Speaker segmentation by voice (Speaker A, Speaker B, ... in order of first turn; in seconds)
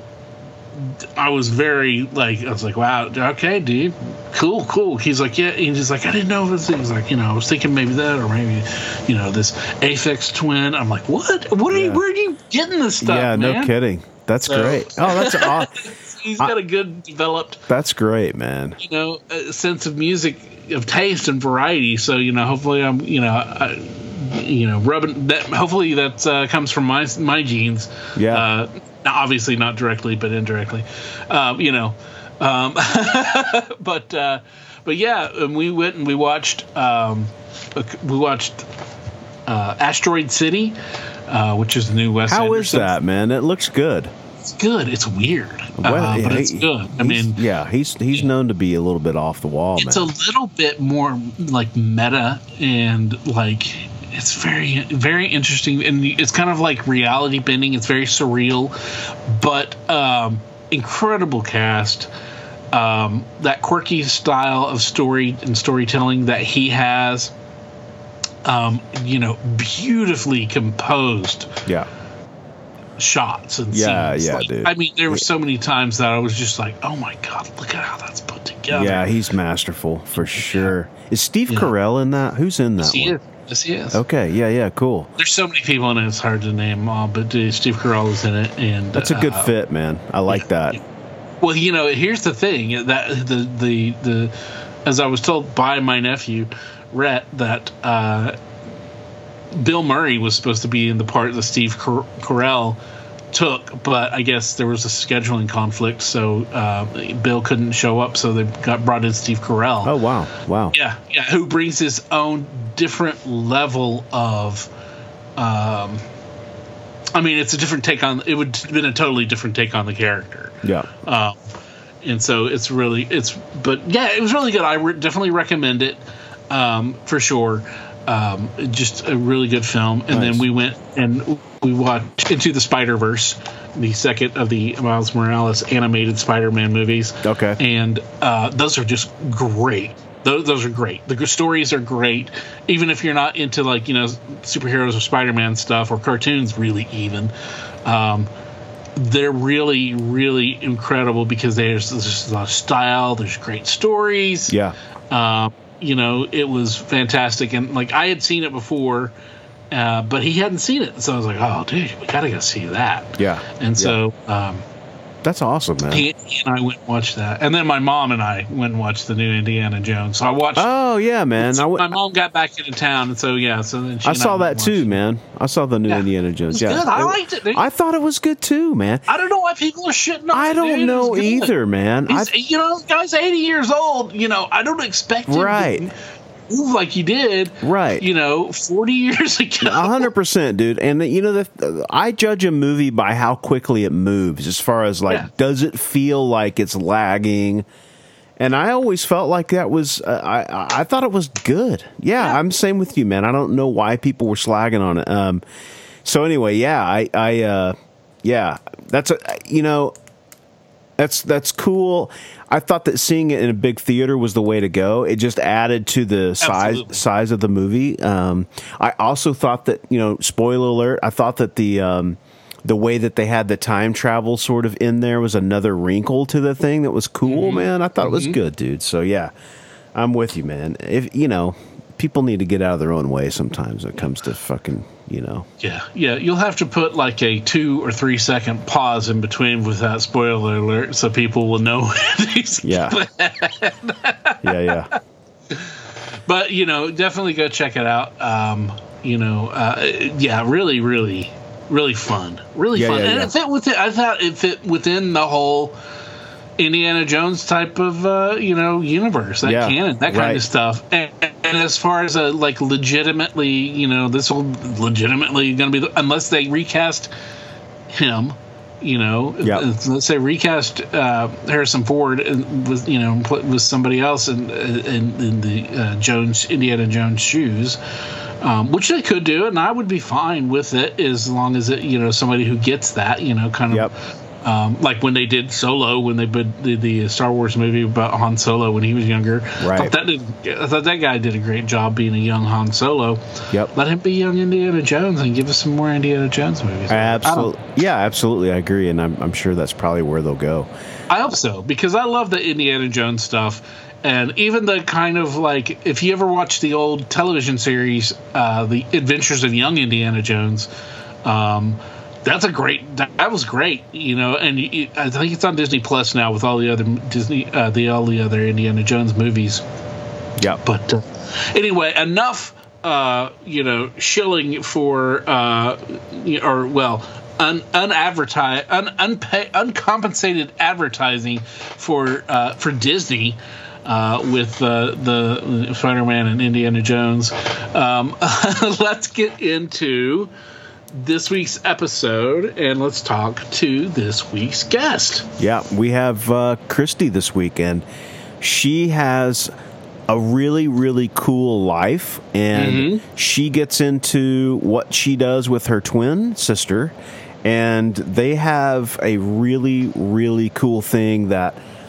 Speaker A: 0.7-13.7, 14.5-17.6, 18.8-38.7, 39.5-40.8, 41.3-42.9, 44.4-47.4, 49.8-62.1, 62.7-67.3, 68.4-71.6, 73.0-79.1, 80.2-80.7, 82.8-84.0, 85.2-89.5, 90.3-90.8, 91.4-94.3, 94.8-98.3, 99.5-102.8, 103.3-109.9, 110.7-114.7, 115.4-116.0, 117.1-121.3, 122.0-126.0, 126.5-147.3, 147.8-148.3, 148.9-154.6, 155.1-159.1, 159.7-164.6, 165.9-170.7, 171.4-174.9, 175.9-177.7, 179.1-181.5, 182.1-185.9, 186.5-190.1, 216.4-217.0, 227.2-228.4, 235.6-245.0, 245.5-255.8, 256.6-267.1, 267.9-277.8, 278.4-297.5, 301.1-310.7, 311.2-319.6, 320.6-340.3, 340.9-345.3, 352.5-353.0
Speaker B: 11.7-12.0, 13.0-15.8, 17.7-18.8, 28.1-28.4, 42.3-44.1, 45.8-50.0, 73.7-75.2, 78.7-83.1, 83.9-85.1, 88.9-90.8, 109.8-110.7, 120.6-120.9, 130.1-130.4, 137.2-137.6, 154.5-154.7, 163.2-163.9, 165.2-166.1, 170.6-171.9, 174.0-179.0, 180.3-182.3, 185.3-185.8, 187.6-188.1, 189.6-197.7, 198.4-205.4, 206.0-209.9, 211.0-229.3, 229.9-235.5, 242.6-243.0, 244.4-244.9, 252.7-253.3, 259.4-260.4, 289.6-289.9, 296.9-300.7, 345.4-347.8, 348.4-349.5, 350.1-361.6